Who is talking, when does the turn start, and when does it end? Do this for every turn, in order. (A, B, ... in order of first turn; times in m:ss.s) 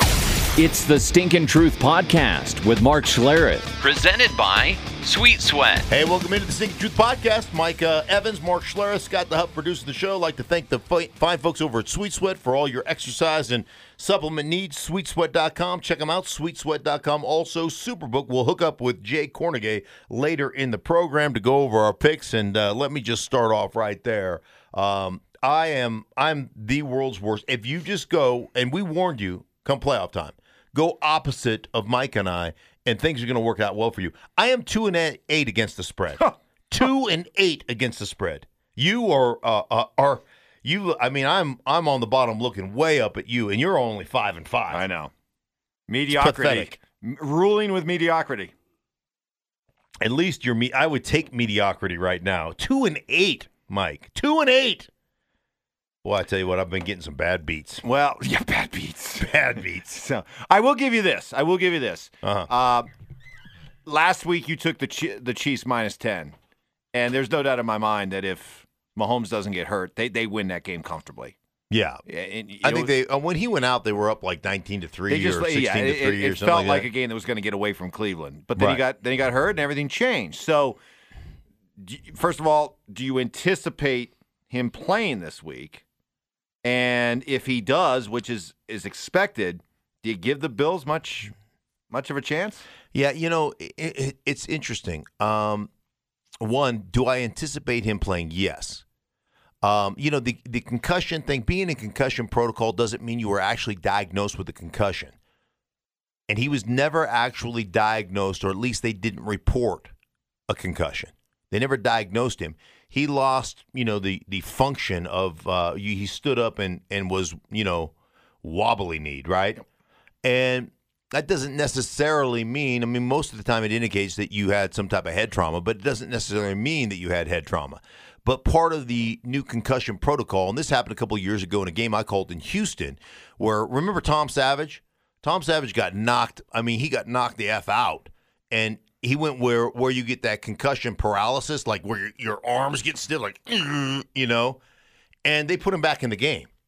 0:00.6-0:05.9 A
0:05.9-0:44.8 B
0:44.7-0:45.1 C
0:45.9-0:48.5 C
0:46.1-0:46.7 B
0:50.0-0:54.9 B
0:56.0-0:57.8 B
0:57.8-1:02.9 C
0:59.2-1:00.0 B
1:02.2-1:02.5 B
1:03.8-1:06.3 C
1:06.9-1:11.3 C
1:11.7-1:12.0 B
1:12.1-1:12.9 C
1:12.6-1:16.9 B
1:15.1-1:20.8 C
1:18.6-1:18.8 B
1:21.8-1:25.8 C
1:26.6-1:31.3 C
1:31.9-1:32.6 C
1:32.9-1:35.7 B
1:36.4-1:38.8 B
1:39.6-1:45.2 B
1:46.3-1:49.9 B
1:50.5-1:59.6 B
2:00.2-2:24.6 B
2:25.2-2:26.5 B